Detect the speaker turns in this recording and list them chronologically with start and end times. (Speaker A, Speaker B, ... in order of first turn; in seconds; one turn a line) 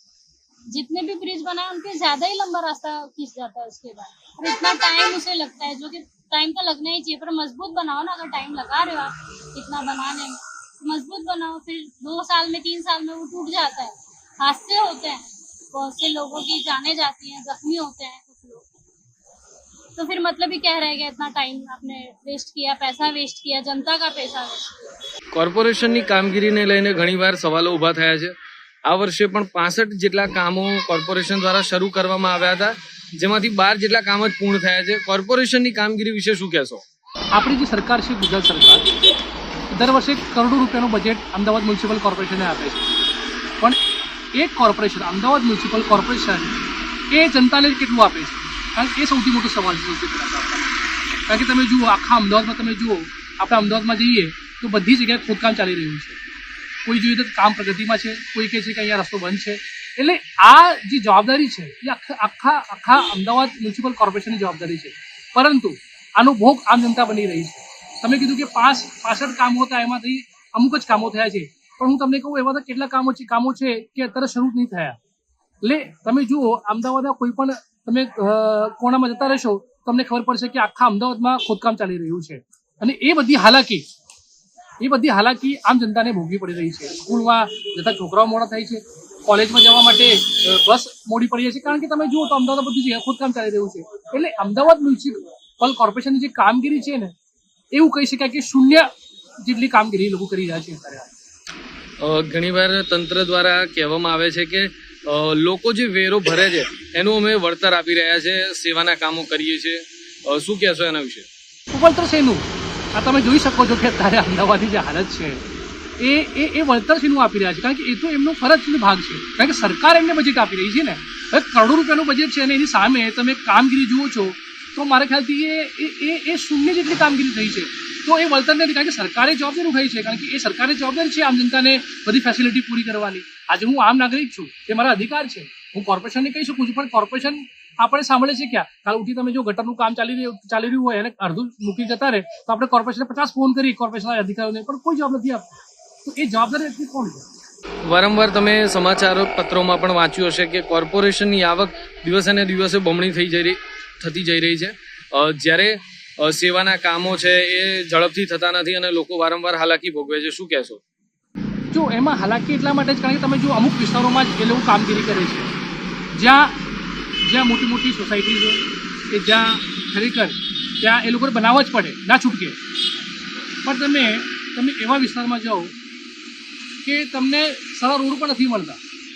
Speaker A: 0.7-18.6
Speaker A: 19.9-24.9
Speaker B: 25.3-36.8
Speaker C: 37.3-38.9
Speaker C: 39.7-42.9
Speaker C: 44.3-46.5
Speaker C: 47.1-50.8
Speaker C: 51.3-56.2
Speaker C: 56.8-75.0
Speaker C: 75.6-83.8
Speaker C: 84.8-97.1
Speaker C: 97.7-98.9
Speaker C: 99.4-101.1
Speaker B: 102.0-111.3
Speaker C: 111.7-115.4
Speaker C: 116.0-145.5
Speaker C: 146.0-147.2
Speaker B: 147.8-160.8
Speaker C: 161.7-165.5
Speaker C: 166.1-166.5
Speaker C: 167.2-172.6
Speaker C: 173.6-175.7
Speaker C: 176.8-178.8